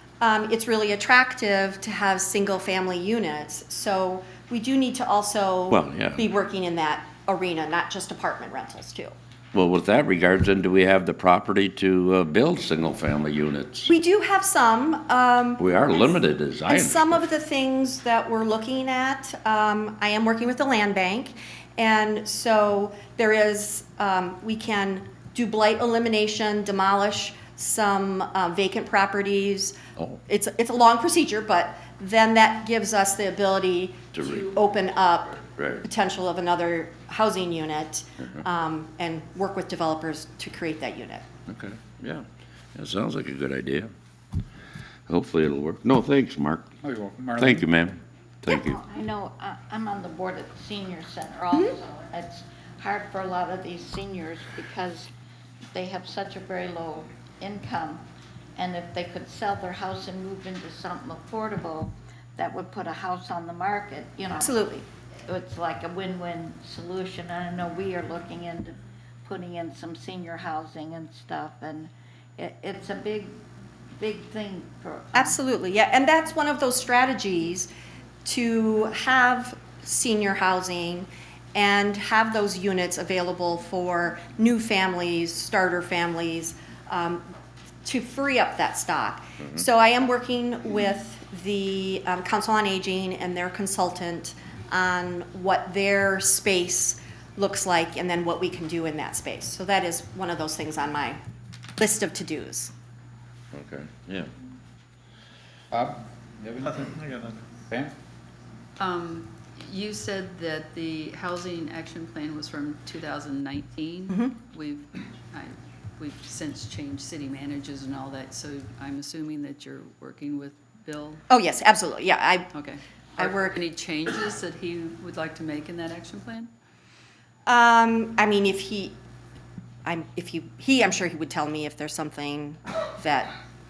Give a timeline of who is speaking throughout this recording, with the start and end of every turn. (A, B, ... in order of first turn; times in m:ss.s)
0:00.2-0:09.1 A
0:05.7-0:06.2 B
0:09.5-0:13.9 B
0:13.9-0:16.1 A
0:15.6-0:17.2 B
0:16.7-0:41.2 A
0:34.1-0:34.4 B
0:35.6-0:35.8 B
0:41.5-0:43.9 B
0:45.1-0:46.7 B
0:46.8-0:47.7 C
0:47.4-0:48.8 B
0:48.5-0:55.1 D
0:55.7-0:58.0 D
0:58.5-1:04.6 D
1:04.4-1:04.8 A
1:05.2-1:13.4 D
1:14.0-1:15.4 D
1:15.1-1:17.7 A
1:18.2-1:27.2 A
1:27.8-1:41.2 A
1:41.8-1:42.7 A
1:43.5-1:44.3 B
1:45.7-1:47.9 C
1:48.8-2:01.2 E
2:01.3-2:02.5 A
2:02.5-2:06.5 E
2:03.2-2:03.6 A
2:07.4-2:09.0 A
2:09.8-2:13.3 A